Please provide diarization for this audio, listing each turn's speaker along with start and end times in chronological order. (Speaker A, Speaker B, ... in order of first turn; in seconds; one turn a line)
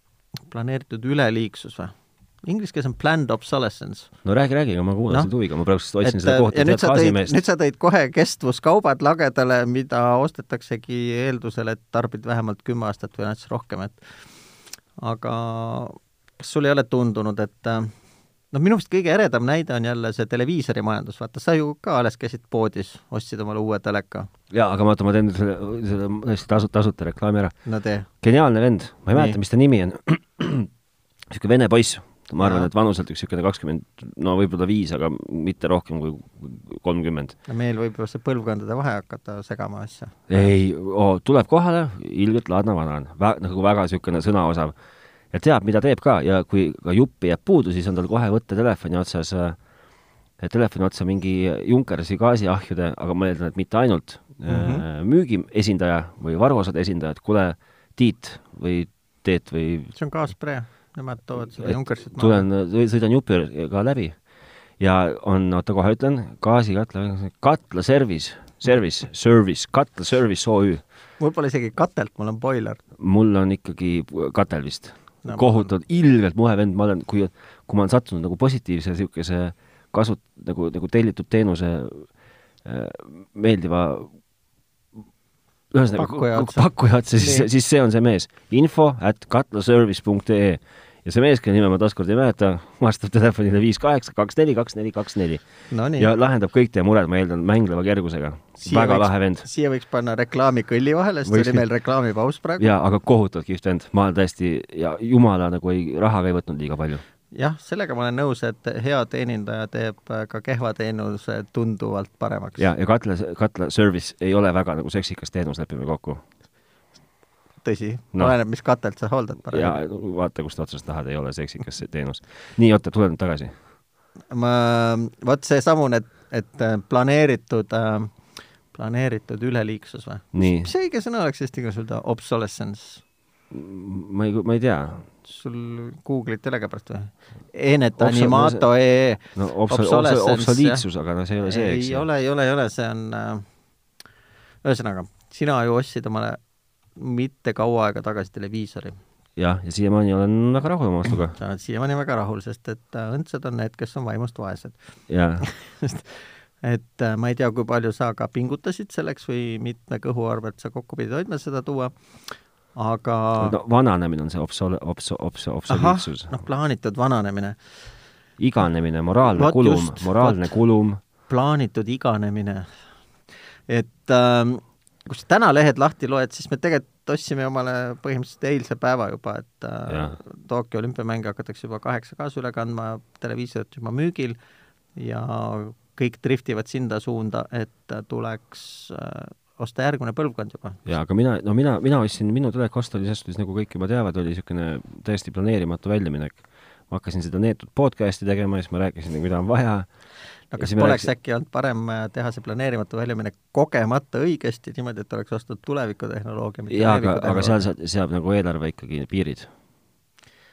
Speaker A: 0.5-4.1
Speaker B: 4.2-7.4
Speaker A: 6.0-14.0
Speaker A: 15.0-17.9
Speaker A: 18.5-24.3
Speaker B: 24.5-27.6
Speaker A: 27.7-28.1
Speaker B: 28.2-30.7
Speaker A: 29.1-29.4
Speaker B: 31.3-37.4
Speaker A: 32.4-32.7
Speaker A: 37.5-40.4
Speaker B: 40.3-44.8
Speaker B: 45.3-49.6
Speaker B: 50.4-59.9
Speaker A: 54.5-54.8
Speaker A: 60.0-62.5
Speaker B: 61.6-64.2
Speaker B: 64.8-70.8
Speaker A: 71.2-72.8
Speaker B: 73.0-82.1
Speaker A: 75.2-75.7
Speaker B: 82.6-84.1
Speaker B: 85.7-95.4
Speaker A: 86.0-87.5
Speaker A: 95.7-96.1
Speaker B: 96.0-99.5
Speaker A: 98.6-102.7
Speaker B: 101.3-101.6
Speaker B: 102.6-107.0
Speaker A: 107.3-112.7
Speaker B: 112.6-116.2
Speaker A: 117.6-119.8
Speaker B: 119.5-123.5
Speaker A: 124.3-128.2
Speaker A: 128.7-133.0
Speaker B: 130.3-130.7
Speaker B: 133.5-135.1
Speaker A: 135.2-140.8
Speaker B: 138.0-138.7
Speaker B: 139.3-142.1
Speaker A: 141.4-143.4
Speaker A: 144.6-146.4
Speaker A: 147.0-149.0
Speaker B: 149.4-151.4
Speaker A: 151.4-154.8
Speaker B: 155.1-155.5
Speaker A: 155.4-161.9
Speaker A: 162.8-163.6
Speaker B: 163.4-166.3
Speaker A: 165.7-167.6
Speaker B: 168.4-171.0
Speaker A: 169.3-170.5
Speaker A: 171.3-172.7
Speaker A: 173.7-184.4
Speaker B: 179.9-180.2
Speaker A: 185.0-190.8
Speaker B: 190.9-199.9
Speaker A: 200.5-207.7
Speaker B: 200.6-201.1
Speaker B: 206.7-209.5